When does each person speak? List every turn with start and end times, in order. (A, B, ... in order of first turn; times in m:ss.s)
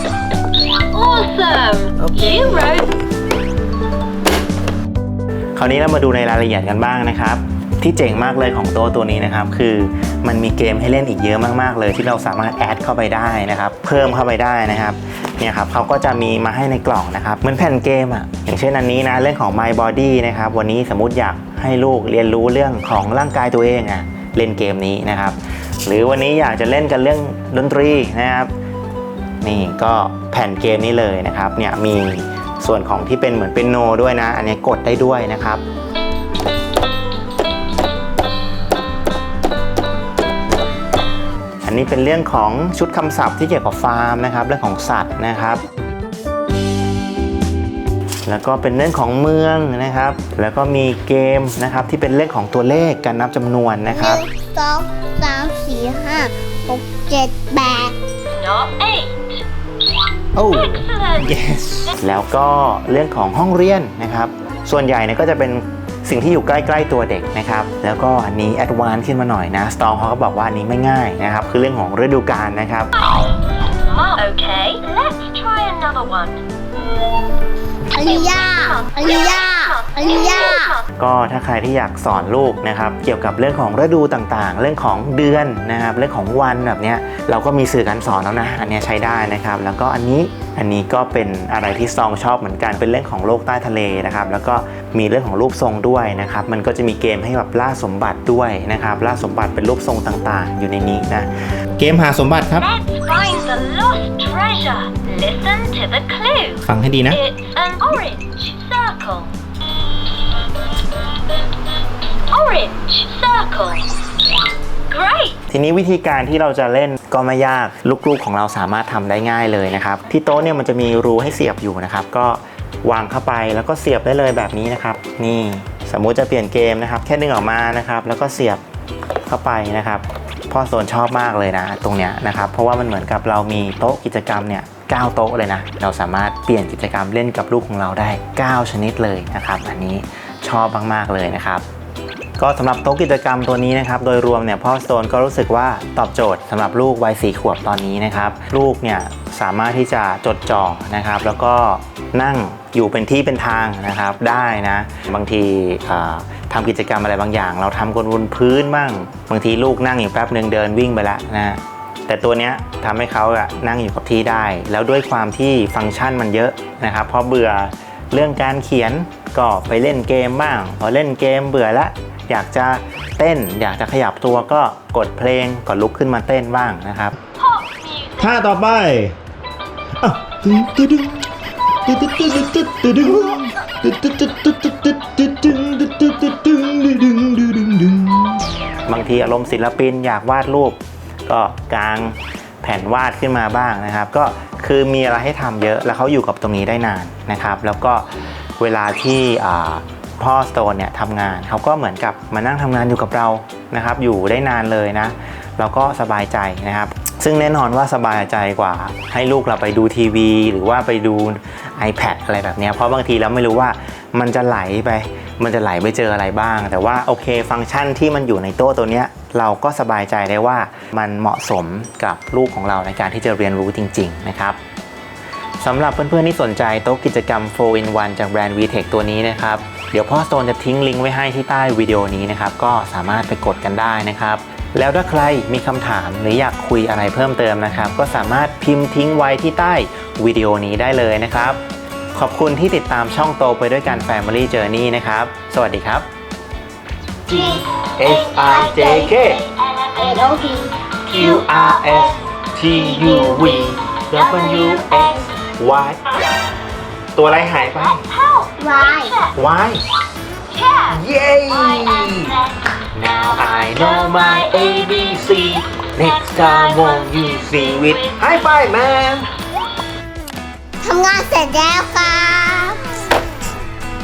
0:00.9-0:02.9 A
0:02.0-0:02.7 B
0:05.6-0:28.5 B
0:29.4-0:35.6 B
0:41.6-0:45.6 B
0:48.3-0:54.2 B
0:53.9-0:58.0 C
0:58.3-0:59.4 A
1:00.4-1:12.9 B
1:00.5-1:02.0 A
1:13.8-1:16.4 A
1:17.9-1:20.7 C
1:18.0-1:20.9 A
1:21.0-1:42.6 B
1:42.6-1:49.3 A
1:46.7-1:47.2 B
1:52.3-1:53.9 A
1:54.9-1:55.4 A
1:55.5-2:08.6 B
2:09.3-2:21.6 B
2:22.4-2:57.2 B
2:57.4-2:58.4 A
2:58.2-2:59.2 B
3:00.0-3:01.3 B
3:01.8-3:44.6 B
3:45.6-4:01.6 B
4:02.2-4:06.1 B
4:07.3-4:09.4 B
4:07.8-4:10.1 A
4:10.0-4:10.7 C
4:11.1-4:16.0 B
4:11.1-4:12.1 A
4:12.8-4:15.3 A
4:17.2-4:18.0 B
4:17.3-4:19.4 A
4:18.6-4:19.2 C
4:19.4-4:19.8 B
4:20.5-4:28.5 A
4:20.9-4:22.3 B
4:22.9-4:29.3 B
4:30.8-4:32.8 C